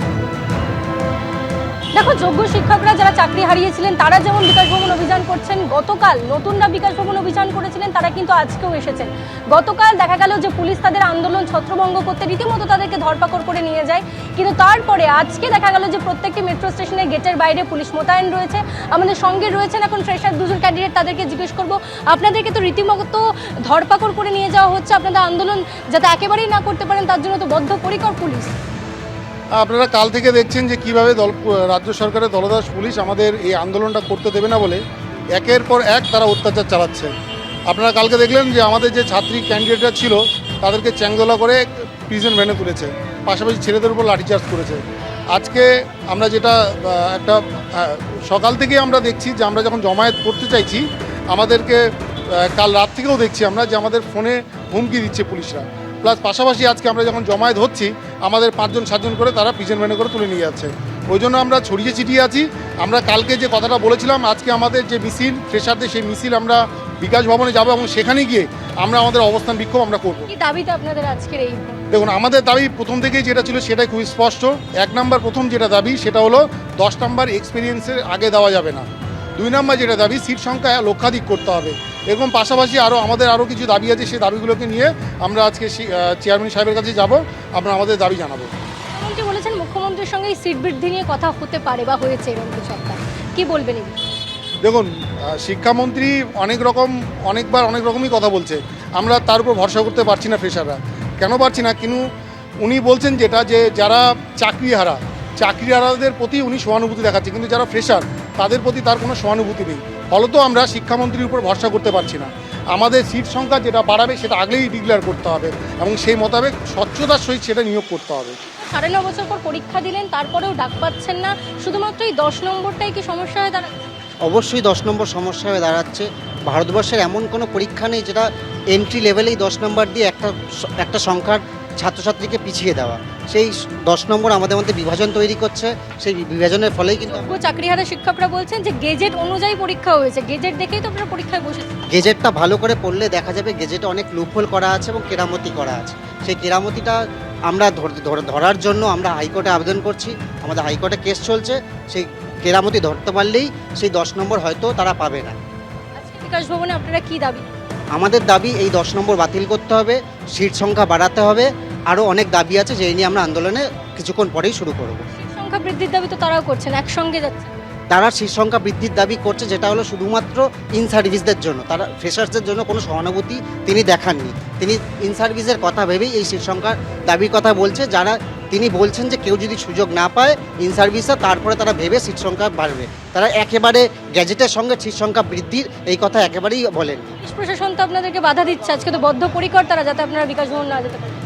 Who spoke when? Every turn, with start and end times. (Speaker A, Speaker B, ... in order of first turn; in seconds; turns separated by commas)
Speaker A: 1.9-28.5, Speaker B: 29.6-34.8, Speaker B: 35.4-37.1, Speaker B: 37.7-44.8, Speaker B: 45.3-51.8, Speaker B: 52.5-70.2, Speaker A: 70.3-71.8, Speaker B: 71.9-78.8, Speaker B: 79.4-88.5, Speaker A: 88.9-94.0, Speaker B: 95.5-102.0, Speaker B: 102.6-118.3, Speaker A: 118.5-123.8, Speaker C: 124.3-137.3, Speaker A: 137.1-141.7, Speaker C: 141.9-147.0, Speaker C: 147.5-155.4, Speaker A: 156.0-157.4, Speaker C: 157.9-165.0, Speaker A: 165.1-167.5, Speaker C: 167.9-187.1, Speaker A: 187.2-191.1